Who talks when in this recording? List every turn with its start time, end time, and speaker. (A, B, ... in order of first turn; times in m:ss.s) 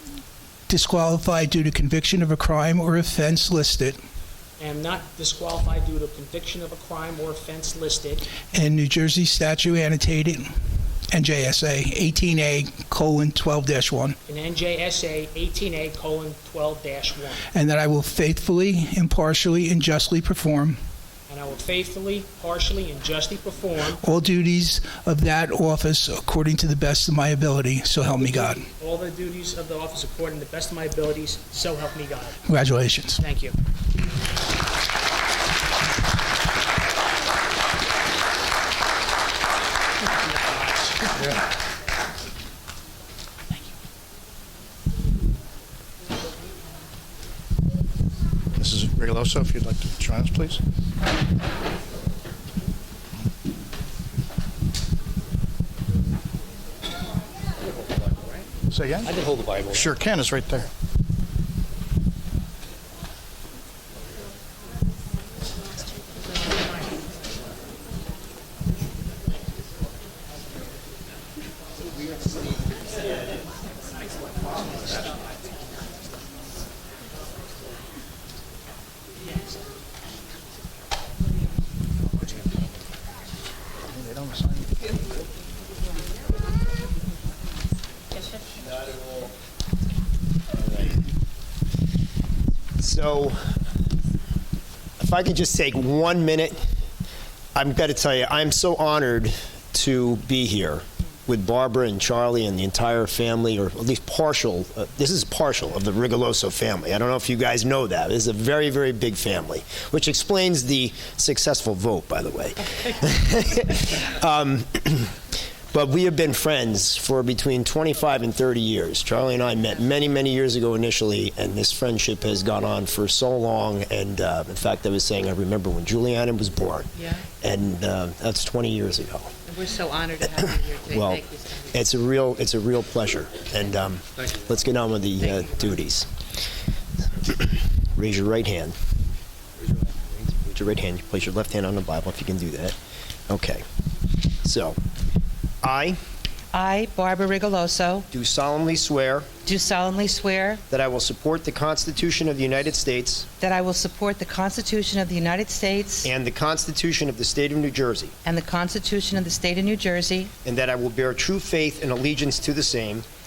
0:00.7-0:04.0 A
0:04.6-0:08.3 B
0:08.4-0:10.5 A
0:11.1-0:14.2 A
0:14.2-0:17.4 B
0:17.5-0:20.8 A
0:21.3-0:24.0 B
0:24.0-0:28.7 A
0:28.1-0:32.4 B
0:32.4-0:33.2 A
0:33.2-0:33.6 B
0:40.3-0:41.1 B
0:48.5-0:50.6 C
0:58.7-1:00.7 C
0:59.0-0:59.8 B
1:23.9-1:24.7 C
1:32.8-1:33.5 D
1:35.0-1:36.6 D
1:37.5-1:55.1 D
1:55.7-2:09.4 D
2:07.0-2:07.2 E
2:09.4-2:11.8 E
2:10.8-2:16.1 D
2:15.2-2:15.8 E
2:17.3-2:18.8 D
2:20.5-2:22.8 D
2:23.3-2:23.6 D
2:24.4-2:24.8 D
2:25.6-2:26.0 D
2:26.5-2:28.1 E
2:28.1-2:29.3 D
2:29.4-2:30.6 E
2:30.6-2:33.3 D
2:33.4-2:36.1 E
2:36.0-2:38.2 D
2:38.2-2:40.3 E
2:40.4-2:43.0 D